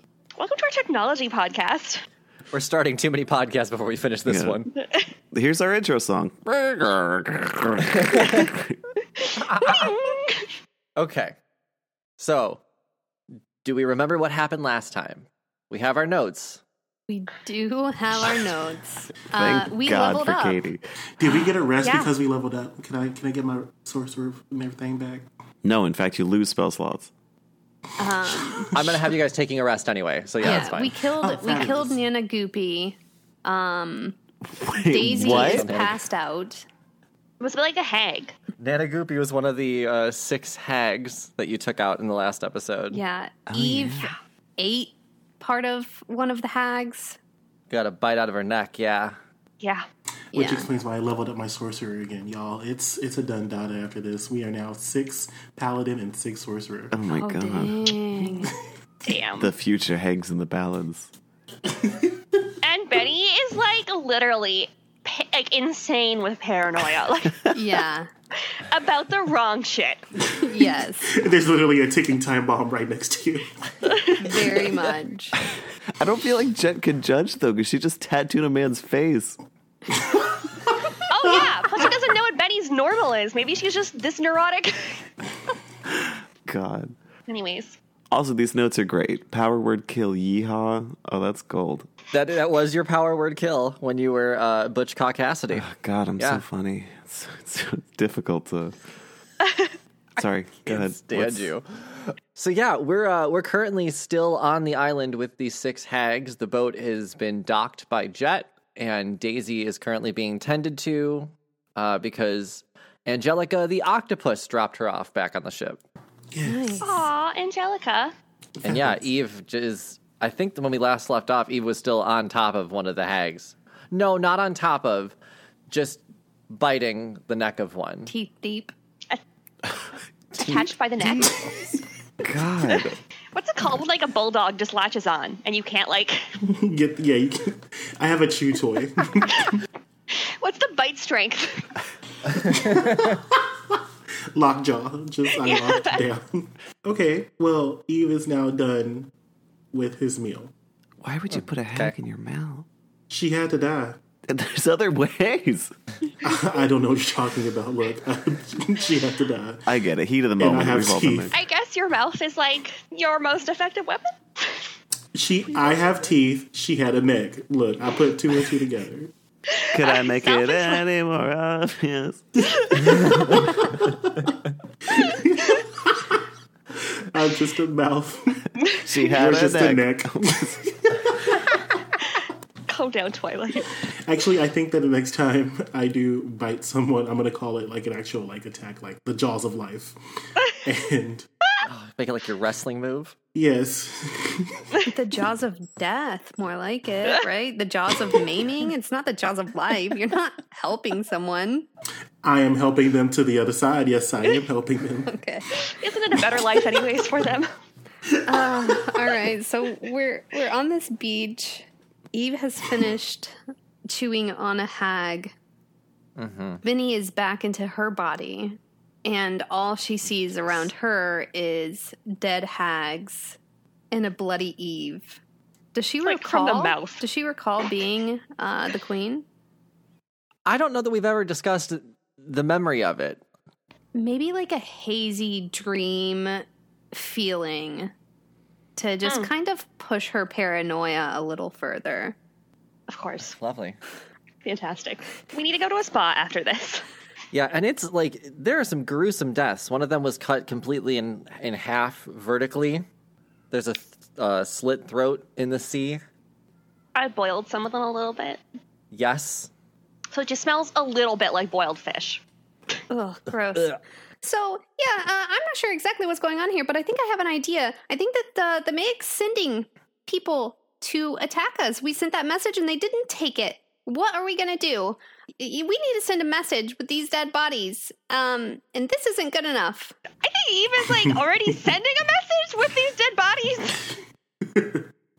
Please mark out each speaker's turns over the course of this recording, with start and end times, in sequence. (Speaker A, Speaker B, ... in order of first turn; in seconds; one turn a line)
Speaker A: 0.4-2.0
Speaker B: 2.5-4.7
Speaker C: 4.3-4.6
Speaker C: 5.3-8.8
Speaker B: 9.4-10.1
Speaker A: 9.6-10.4
Speaker B: 11.0-11.4
Speaker B: 12.2-12.6
Speaker B: 13.6-16.6
Speaker D: 17.1-20.6
Speaker C: 19.4-20.8
Speaker E: 21.2-25.3
Speaker A: 21.8-22.1
Speaker C: 25.6-27.1
Speaker D: 28.0-28.8
Speaker E: 28.4-28.8
Speaker B: 28.7-31.0
Speaker D: 30.4-34.2
Speaker E: 31.1-32.0
Speaker C: 34.5-35.7
Speaker D: 34.9-36.6
Speaker B: 35.0-36.0
Speaker A: 37.4-38.4
Speaker B: 38.6-43.0
Speaker D: 42.9-47.2
Speaker C: 43.5-44.1
Speaker B: 47.7-49.1
Speaker A: 49.6-49.9
Speaker E: 50.3-57.0
Speaker D: 50.3-50.7
Speaker C: 56.9-58.0
Speaker D: 57.1-58.5
Speaker A: 59.0-59.5
Speaker C: 59.4-61.1
Speaker E: 61.7-62.1
Speaker A: 62.6-67.4
Speaker D: 67.5-68.1
Speaker A: 68.5-70.0
Speaker D: 70.3-71.1
Speaker E: 71.1-73.5
Speaker A: 73.9-74.2
Speaker D: 74.2-75.4
Speaker C: 76.0-79.4
Speaker E: 80.1-81.4
Speaker A: 81.1-85.1
Speaker C: 86.0-87.0
Speaker A: 87.3-87.8
Speaker C: 88.1-91.9
Speaker B: 92.1-95.7
Speaker C: 95.5-98.8
Speaker C: 100.2-101.5
Speaker B: 100.7-115.8
Speaker E: 116.3-116.8
Speaker D: 116.4-117.1
Speaker A: 116.8-118.1
Speaker E: 118.6-119.0
Speaker B: 118.6-125.2
Speaker B: 125.7-128.1
Speaker D: 128.1-128.7
Speaker A: 130.3-131.5
Speaker C: 130.4-131.6
Speaker C: 132.2-133.0
Speaker A: 133.3-136.2
Speaker E: 136.4-139.6
Speaker A: 140.1-141.7
Speaker E: 142.3-143.8
Speaker E: 144.3-149.1
Speaker A: 145.4-146.0
Speaker E: 149.7-150.5
Speaker C: 151.0-152.7
Speaker B: 151.3-151.9
Speaker E: 153.1-154.0
Speaker C: 154.3-155.7
Speaker E: 156.2-159.7
Speaker C: 159.7-161.3
Speaker E: 160.4-161.3
Speaker A: 161.3-164.6
Speaker E: 165.1-169.1
Speaker A: 169.6-170.8
Speaker C: 169.7-173.5
Speaker E: 172.5-174.3
Speaker E: 174.9-176.2
Speaker E: 176.8-178.5
Speaker C: 178.8-180.6
Speaker E: 179.1-181.5
Speaker A: 182.7-183.7
Speaker E: 183.9-191.3
Speaker B: 191.7-193.2
Speaker E: 193.3-194.6
Speaker D: 194.9-201.7
Speaker E: 202.2-205.1
Speaker D: 205.1-205.5
Speaker A: 205.6-207.5
Speaker E: 208.1-208.5
Speaker D: 208.3-213.4
Speaker D: 213.9-215.3
Speaker B: 216.2-216.6
Speaker D: 216.6-223.4
Speaker D: 223.9-225.2
Speaker D: 225.7-229.3
Speaker A: 226.0-227.0
Speaker B: 230.5-233.2
Speaker D: 233.9-237.9
Speaker D: 238.8-242.2
Speaker A: 239.1-239.3
Speaker A: 242.9-243.3
Speaker B: 243.2-243.8
Speaker A: 244.4-246.8
Speaker B: 247.3-252.8
Speaker B: 253.5-256.0
Speaker A: 256.9-258.4
Speaker B: 258.9-259.5
Speaker A: 260.1-262.2
Speaker D: 262.9-263.7
Speaker D: 264.2-279.9
Speaker A: 280.2-284.0
Speaker E: 284.4-284.9